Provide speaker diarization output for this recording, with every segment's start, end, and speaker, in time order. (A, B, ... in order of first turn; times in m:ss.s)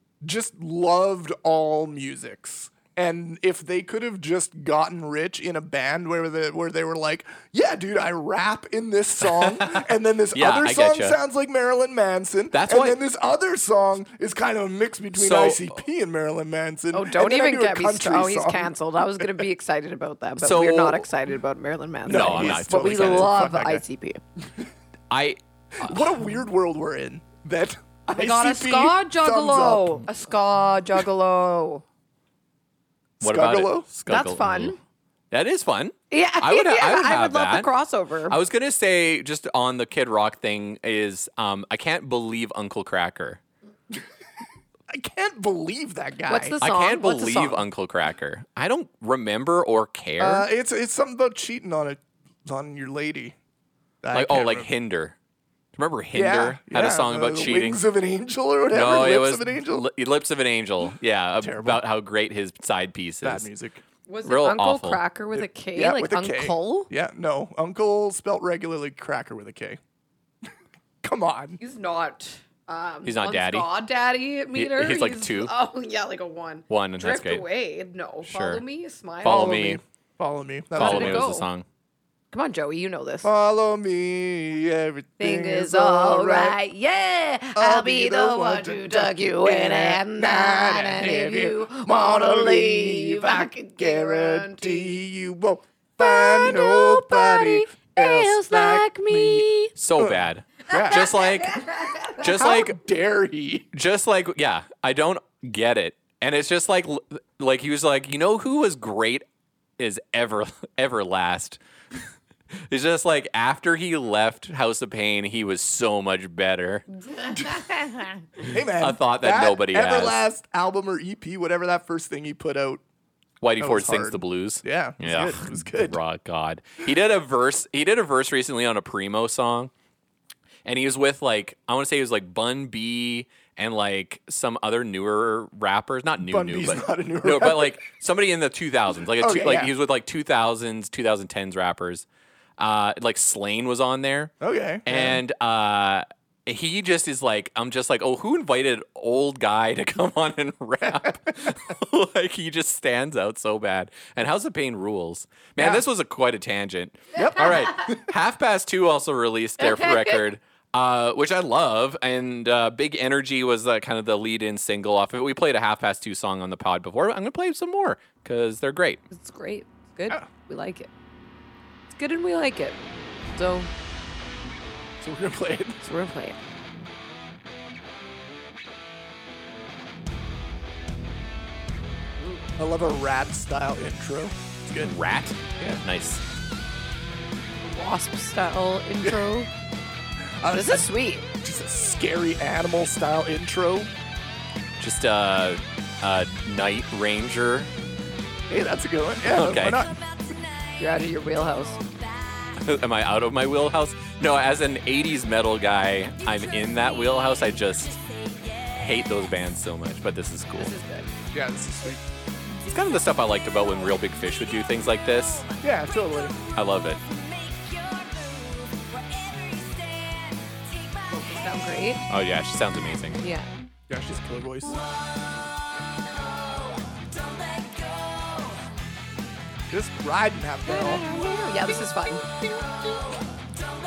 0:00.2-0:19.3 A
0:09.2-0:11.2 B
0:12.5-0:13.0 B
0:15.1-0:15.7 B
0:16.9-0:24.2 C
0:20.4-0:21.1 B
0:22.0-0:23.8 A
0:22.1-0:23.3 B
0:25.1-0:26.0 B
0:25.8-0:30.0 A
0:28.1-0:31.8 C
0:33.2-0:33.9 A
0:33.2-0:34.8 B
0:34.1-0:34.8 C
0:35.3-0:37.7 B
0:36.1-0:38.4 C
0:38.3-0:43.4 B
0:44.9-0:46.6 A
0:46.3-0:47.6 C
0:46.6-0:50.5 B
0:50.2-0:53.4 A
0:54.0-0:54.7 A
0:54.1-0:55.2 B
0:55.8-0:57.8 B
0:56.1-0:59.9 A
0:58.7-1:03.5 B
1:01.4-1:01.8 A
1:03.2-1:03.8 A
1:04.1-1:06.9 C
1:04.2-1:05.0 B
1:05.3-1:09.8 A
1:11.0-1:11.6 A
1:11.6-1:19.8 C
1:13.0-1:13.7 B
1:14.5-1:15.5 B
1:16.7-1:17.4 B
1:18.2-1:18.6 B
1:19.2-1:19.8 B
1:19.2-1:21.3 A
1:20.8-1:21.5 C
1:20.8-1:21.6 B
1:22.3-1:23.3 C
1:23.2-1:26.6 A
1:25.2-1:35.0 C
1:27.5-1:39.5 A
1:36.0-1:39.7 C
1:39.7-1:42.8 B
1:40.0-1:41.1 A
1:40.7-1:42.3 C
1:42.2-1:43.7 A
1:43.7-1:49.2 B
1:49.8-1:51.6 B
1:52.7-1:56.8 B
1:57.2-1:58.1 C
1:58.4-2:02.8 A
1:58.5-2:00.2 B
2:03.4-2:09.7 B
2:03.6-2:06.0 A
2:10.6-2:22.0 B
2:16.2-2:17.8 A
2:19.2-2:19.7 A
2:22.6-2:24.3 B
2:24.4-2:25.2 A
2:24.8-2:49.0 B
2:30.9-2:31.5 A
2:35.6-2:35.8 A
2:37.2-2:37.7 A
2:39.6-2:40.2 C
2:49.1-2:50.9 C
2:52.0-2:52.8 C
2:53.3-2:53.7 C
2:55.0-2:55.8 A
2:55.8-2:56.4 C
3:02.6-3:04.9 A
3:04.8-3:06.2 B
3:07.6-3:09.5 C
3:10.4-3:10.9 A
3:10.5-3:11.2 C
3:11.4-3:13.9 A
3:14.8-3:17.7 B
3:18.5-3:20.0 A
3:19.2-3:19.9 B
3:20.8-3:21.8 C
3:22.5-3:28.0 B
3:28.6-3:30.7 B
3:30.6-3:31.1 C
3:31.3-3:32.0 A
3:32.6-3:35.4 B
3:35.6-3:36.4 A
3:36.5-3:37.0 B
3:37.6-3:42.0 C
3:42.1-3:43.2 B
3:43.2-3:43.5 C
3:43.9-3:44.8 A
3:49.7-3:51.1 A
3:50.7-3:52.4 C